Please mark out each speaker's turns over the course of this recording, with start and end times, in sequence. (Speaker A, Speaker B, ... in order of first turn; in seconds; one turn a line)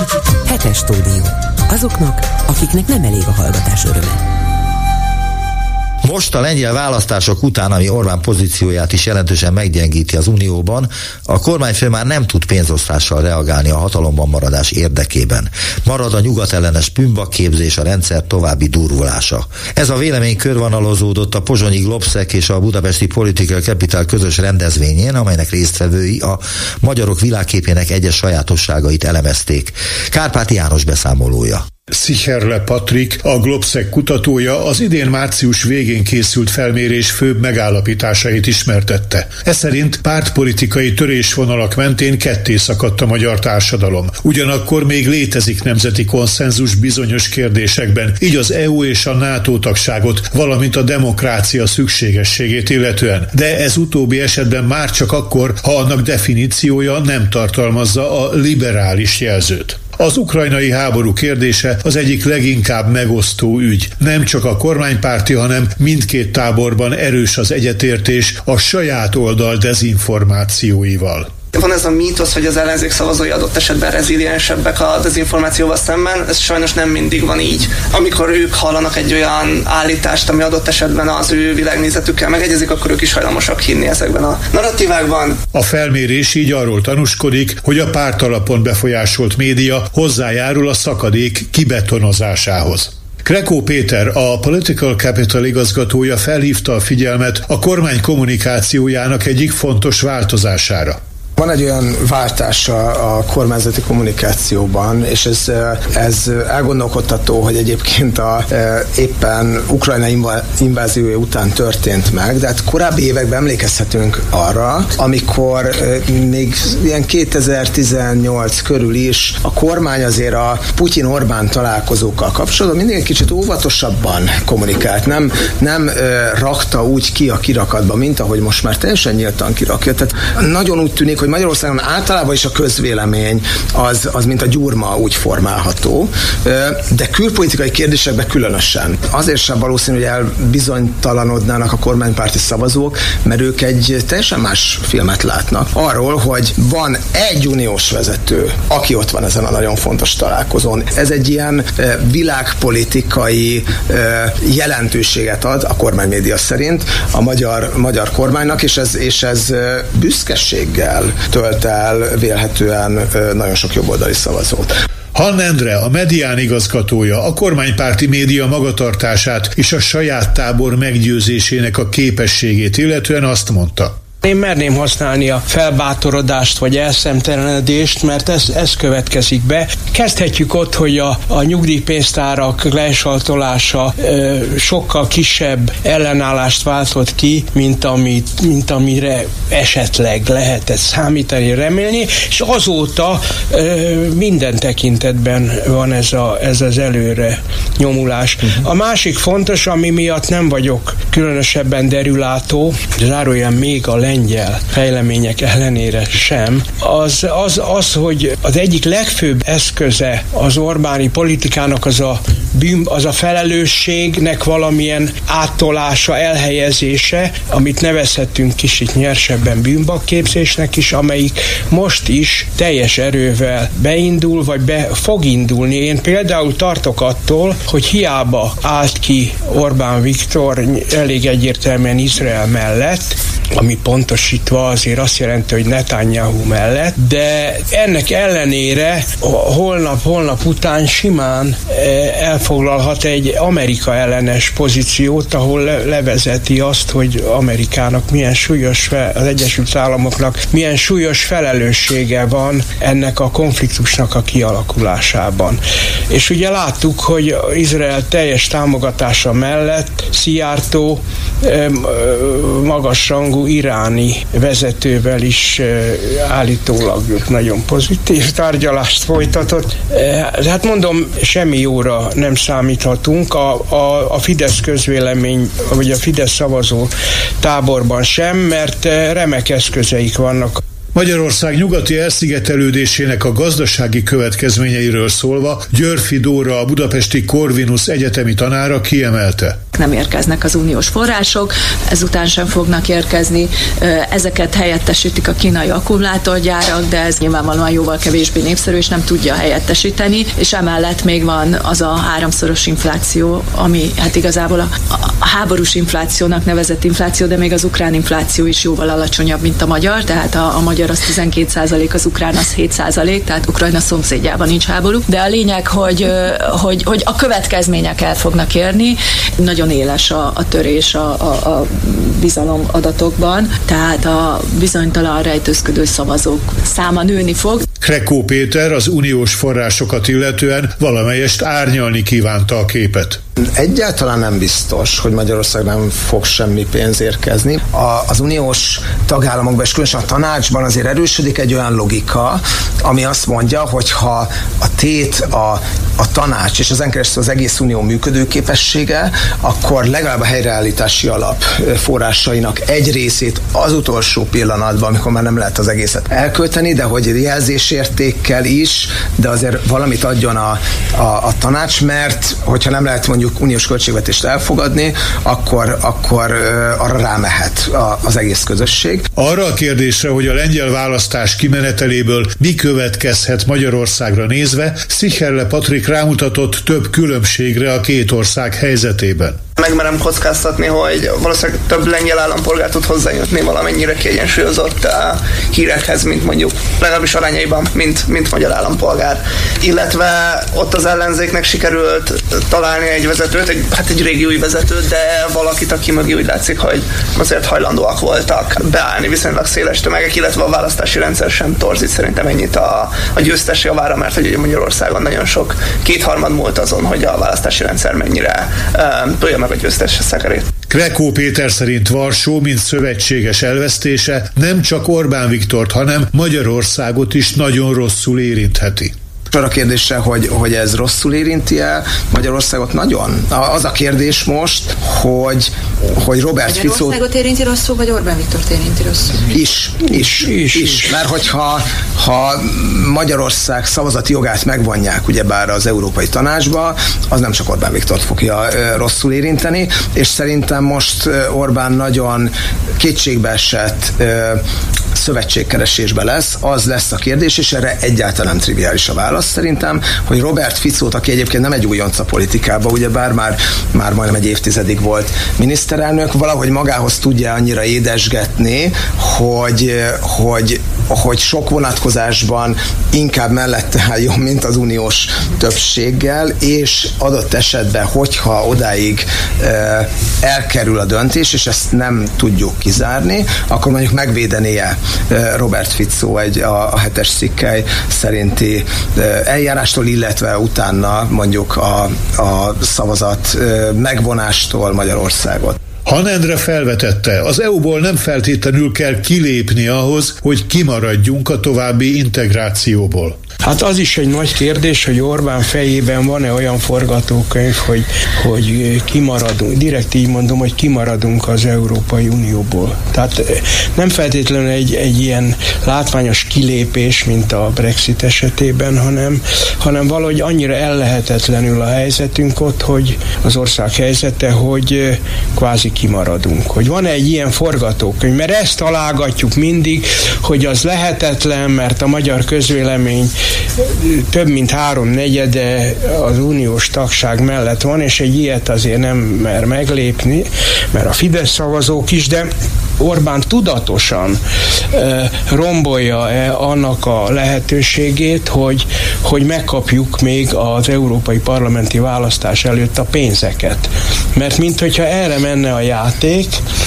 Speaker A: 0.5-4.2
Speaker B: 6.0-31.6
Speaker C: 31.9-71.3
Speaker D: 71.5-85.4
Speaker C: 85.5-101.0
Speaker E: 101.4-164.7
Speaker C: 165.2-174.0
Speaker F: 174.2-280.6
Speaker C: 280.9-289.6
Speaker G: 289.8-327.6
Speaker C: 327.8-333.2
Speaker E: 333.4-369.0
Speaker C: 369.2-379.4
Speaker D: 379.6-410.5
Speaker C: 410.7-419.0
Speaker E: 419.3-427.0
Speaker G: 426.4-429.2
Speaker E: 429.3-444.4
Speaker F: 430.1-431.0
Speaker E: 444.9-485.6
Speaker C: 485.9-493.2
Speaker F: 493.4-534.2
Speaker F: 534.7-546.4